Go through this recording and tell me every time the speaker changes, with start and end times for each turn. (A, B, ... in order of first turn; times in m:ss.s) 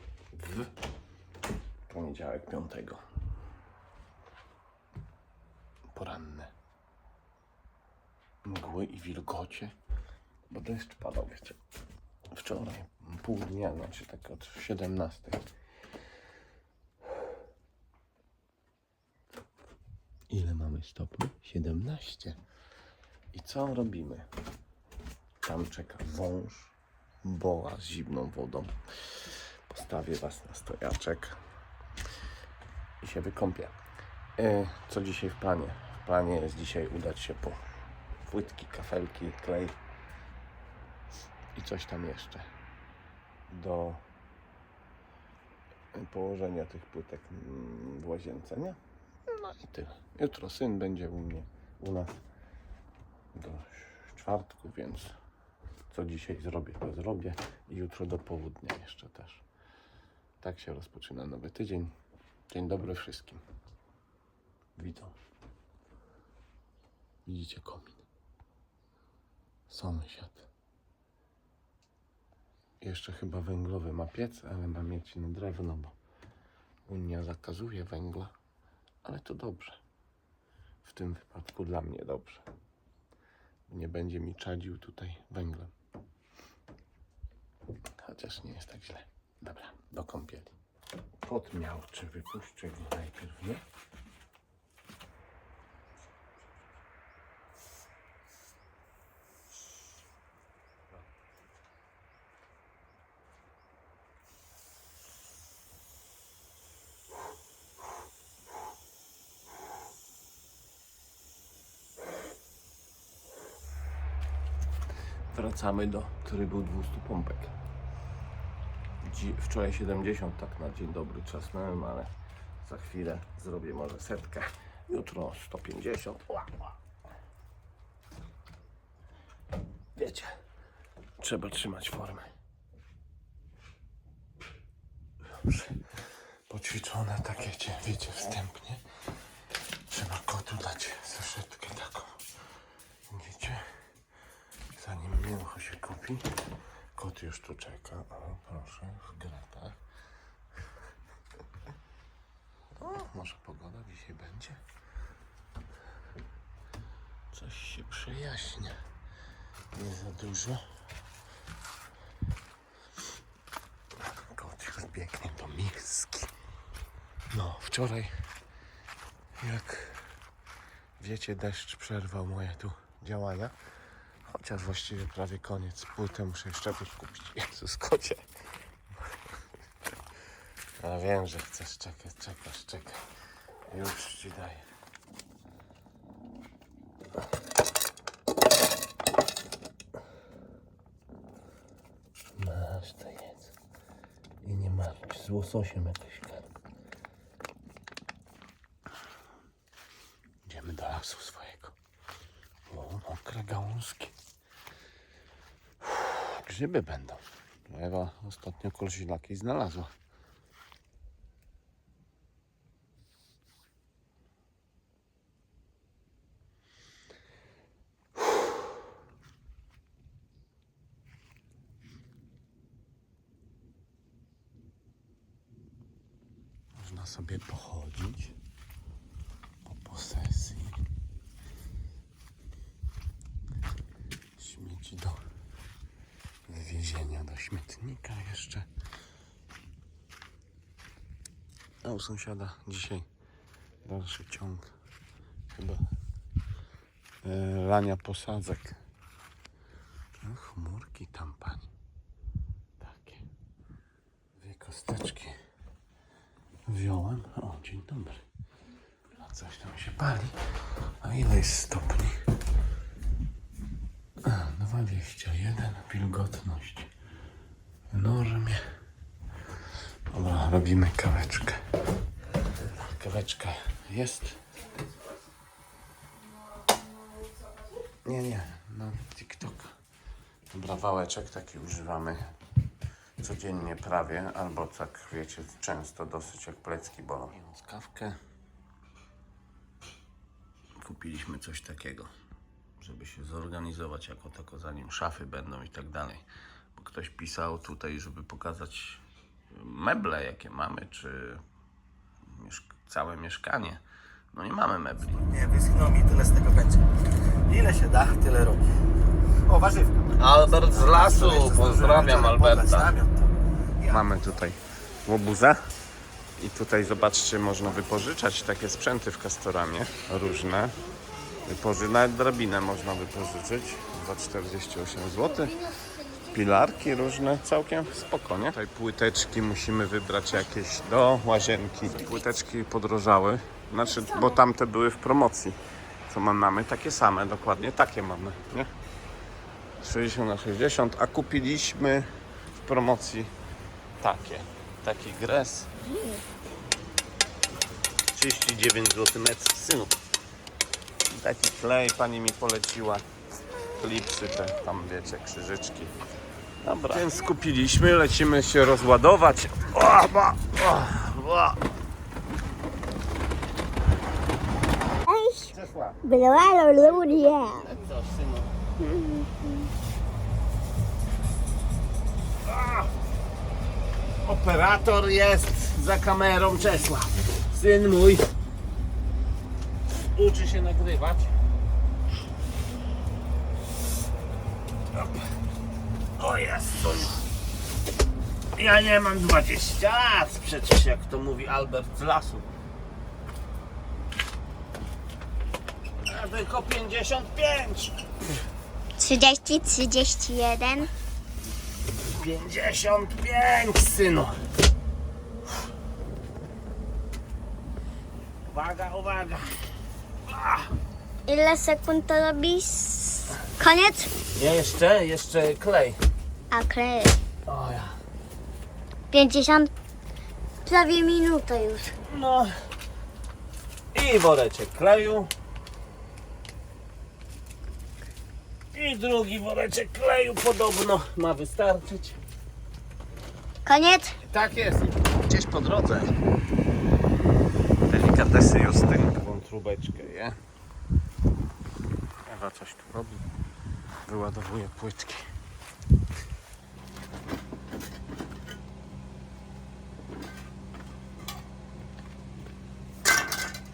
0:00.3-0:00.7 A
0:01.9-0:03.0 A
0:05.9-0:06.5 A
0:08.4-0:09.8 A
0:10.5-0:11.6 A
0:12.3-0:15.5 A
0:20.3-0:22.4 A
0:23.3-0:24.3 A
0:25.4-0:31.4 A
0:33.0-0:33.8 A
0:34.4-0:37.7 A
0:38.3-0:39.8 A
0:41.6-0:42.5 A
0:43.5-0:44.0 A
0:45.9-0:52.2 A
0:53.3-0:55.2 A
0:55.9-0:59.4 A
1:00.4-1:01.9 A
1:02.5-1:03.4 A
1:04.8-1:05.2 A
1:07.2-1:08.0 A
1:09.7-1:10.5 A
1:12.8-1:16.0 A
1:16.9-1:18.3 A
1:19.0-1:19.8 A
1:20.8-1:22.4 A
1:23.7-1:25.7 A
1:28.0-1:30.6 A
1:31.2-1:33.6 A
1:55.3-1:57.5 A
1:59.0-2:02.1 A
2:02.6-2:06.7 A
2:10.0-2:10.3 A
2:11.2-2:12.3 A
2:15.3-2:15.7 A
2:16.5-2:18.8 A
2:19.9-2:22.2 A
2:23.1-2:23.6 A
2:24.7-2:26.4 A
2:26.9-2:29.8 A
2:32.8-2:34.6 A
2:37.3-2:38.8 A
2:39.7-2:40.6 A
2:44.0-2:46.3 A
2:47.3-2:48.1 A
2:49.4-2:50.0 A
2:51.0-2:53.6 A
2:54.3-2:58.3 A
3:00.8-3:03.0 A
3:03.7-3:04.7 A
3:12.4-3:13.5 A
3:14.4-3:16.5 A
3:20.4-3:21.8 A
3:22.7-3:24.2 A
3:25.8-3:29.9 A
3:46.8-3:48.4 A
3:49.6-3:50.8 A
3:54.4-3:55.2 A
3:56.5-3:58.7 A
4:01.8-4:03.1 A
4:03.8-4:04.7 A
4:05.6-4:05.8 A
4:07.2-4:08.8 A
4:10.2-4:11.7 A
4:12.8-4:13.3 A
4:14.4-4:15.4 A
4:16.7-4:18.2 A
4:19.1-4:20.4 A
4:21.0-4:22.2 A
4:24.2-4:26.9 A
4:27.9-4:28.6 A
4:30.1-4:31.6 A
4:32.5-4:34.4 A
4:38.0-4:39.7 A
4:40.5-4:42.3 A
4:43.2-4:48.2 A
4:50.8-4:52.1 A
4:52.8-5:01.4 A
5:02.2-5:03.8 A
5:04.3-5:05.3 A
5:05.3-5:06.8 B
5:07.4-5:08.6 B
5:09.5-5:10.2 B
5:10.2-5:13.0 A
5:10.8-5:13.3 B
5:13.8-5:15.6 A
5:16.4-5:20.8 A
5:21.4-5:35.6 A
5:36.1-5:38.7 A
5:39.8-5:42.1 A
5:42.6-5:43.3 A
5:44.0-5:45.7 A
5:48.1-5:50.0 A
5:51.1-5:55.9 A
5:56.6-6:01.6 A
6:05.1-6:07.7 C
6:05.5-6:06.0 A
6:06.7-6:08.7 A
6:09.0-6:09.4 C
6:12.5-6:12.9 A
6:14.2-6:18.3 A
6:20.1-6:21.4 A
6:25.0-6:25.2 A
6:26.2-6:27.2 A
6:28.6-6:32.5 A
6:36.1-6:38.0 A
6:39.0-6:40.9 C
6:42.0-6:44.4 A
6:48.5-6:49.6 A
6:50.3-6:50.7 A
6:51.3-6:54.1 C
6:54.2-6:56.0 A
6:56.5-6:57.2 C
6:57.5-6:58.0 A
6:59.1-6:59.7 C
7:00.6-7:01.9 C
7:02.0-7:02.5 A
7:03.9-7:05.3 A
7:08.7-7:12.2 A
7:13.7-7:14.2 C
7:14.2-7:16.2 A
7:17.9-7:20.4 A
7:22.3-7:23.2 A
7:24.0-7:25.3 A